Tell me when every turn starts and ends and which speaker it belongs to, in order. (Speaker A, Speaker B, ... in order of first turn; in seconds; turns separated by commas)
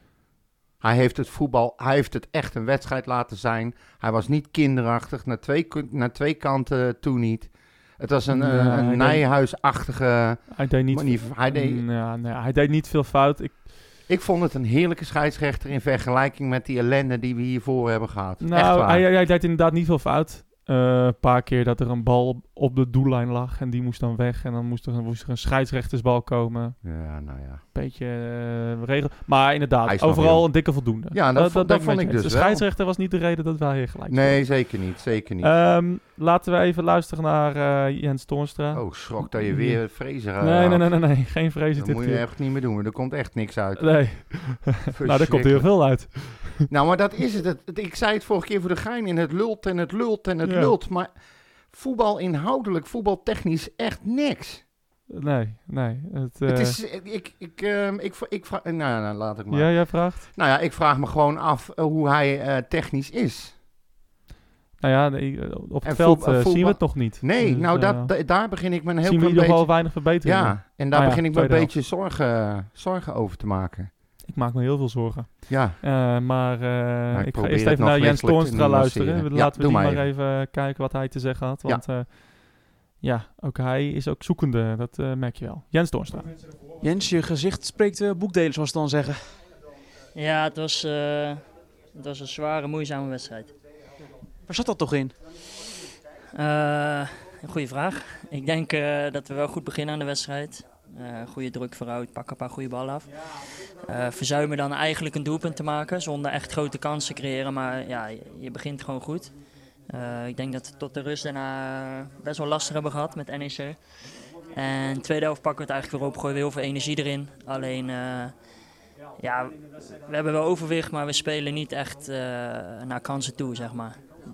Speaker A: 0.8-11.8, Speaker B: 8.3-9.2, Speaker B: 10.5-13.7, Speaker A: 14.1-19.0, Speaker B: 18.4-26.8, Speaker A: 26.8-27.6, Speaker B: 27.7-34.5, Speaker A: 29.9-32.6, Speaker A: 34.1-35.5, Speaker B: 35.4-39.8, Speaker A: 38.7-41.1, Speaker B: 40.4-42.2, Speaker A: 41.8-51.1, Speaker B: 43.8-46.7, Speaker B: 50.4-50.7, Speaker A: 51.7-54.6, Speaker B: 55.1-56.8, Speaker A: 56.5-63.6, Speaker B: 59.5-60.3, Speaker B: 64.8-68.1, Speaker A: 65.8-73.9, Speaker B: 69.0-71.7, Speaker B: 74.3-86.3, Speaker A: 75.5-75.8, Speaker A: 77.1-80.1, Speaker C: 86.8-89.3, Speaker D: 90.2-91.4, Speaker D: 92.0-93.5, Speaker C: 94.5-95.1, Speaker D: 96.3-103.1, Speaker D: 103.8-109.3, Speaker D: 109.9-113.8, Speaker D: 114.5-118.3, Speaker D: 119.2-124.0